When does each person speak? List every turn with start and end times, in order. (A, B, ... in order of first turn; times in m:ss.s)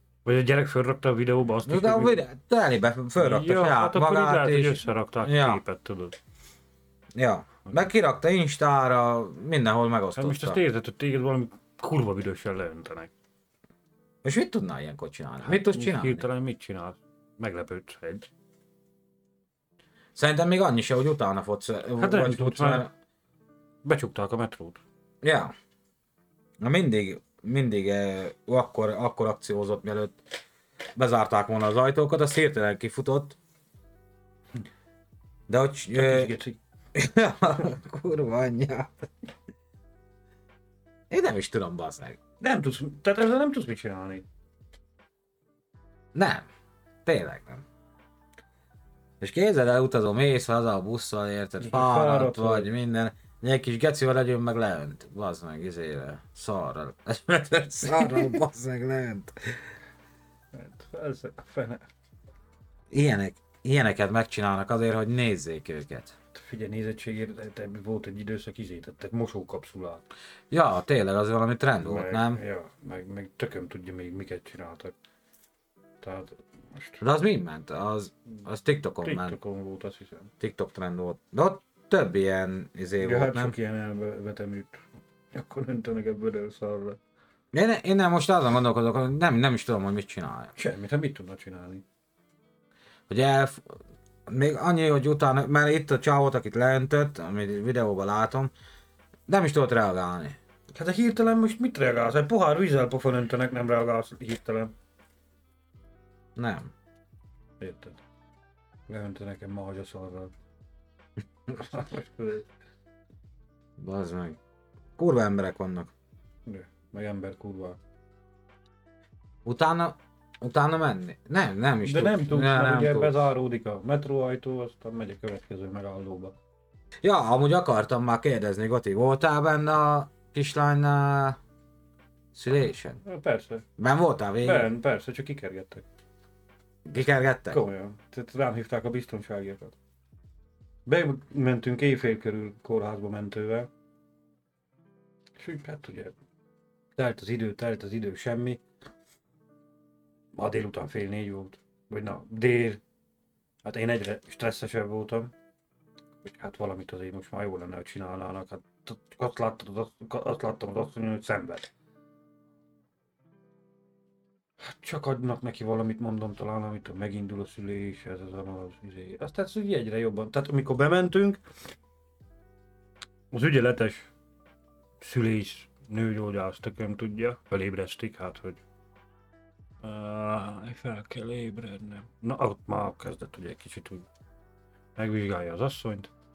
0:00.2-0:02.2 A
0:01.6-0:05.6 B
0:03.2-0:06.2 A
0:07.1-0:10.6 B
0:10.2-0:13.1 A
0:14.2-0:16.2 B
0:15.4-0:18.3 A
0:20.2-0:22.9 B
0:22.0-0:22.9 A
0:23.8-0:24.8 A
0:25.2-0:25.5 B
0:26.6-0:30.2 B
0:31.0-0:33.4 B
0:35.5-0:36.3 B
0:35.9-0:36.6 A
0:36.9-0:39.1 B
0:41.1-0:42.2 B
0:42.4-0:44.2 A
0:46.1-0:46.4 B
0:47.0-0:47.6 B
0:49.2-0:59.6 B
0:51.6-0:52.7 A
1:00.5-1:01.8 A
1:02.9-1:06.1 B
1:06.3-1:10.0 A
1:10.5-1:12.4 B
1:11.8-1:14.9 A
1:16.0-1:17.0 A
1:17.0-1:19.4 B
1:19.0-1:20.3 A
1:20.4-1:23.5 B
1:23.0-1:27.0 A
1:27.5-1:30.5 B
1:30.6-1:31.8 A
1:33.1-1:33.6 B
1:34.3-1:38.5 B
1:39.3-1:40.4 B
1:40.7-1:44.7 A
1:46.4-1:46.7 B
1:47.6-1:48.0 A
1:48.9-1:50.3 A
1:51.6-1:52.5 A
1:53.8-1:54.4 B
1:55.0-1:55.9 B
1:56.4-1:57.8 A
1:59.4-2:03.2 B
2:01.8-2:06.3 A
2:07.0-2:11.4 B
2:12.3-2:13.0 B
2:13.0-2:13.6 A
2:13.8-2:14.7 B
2:14.4-2:15.8 A
2:16.8-2:17.6 B
2:17.5-2:19.7 A
2:20.8-2:23.7 A
2:25.4-2:26.1 A
2:27.0-2:28.6 A
2:30.3-2:32.8 A
2:33.6-2:35.3 A
2:36.2-2:41.7 A
2:44.6-2:51.4 A
2:53.3-2:54.1 A
2:55.0-2:58.6 A
2:59.8-3:04.1 A
3:05.0-3:06.1 A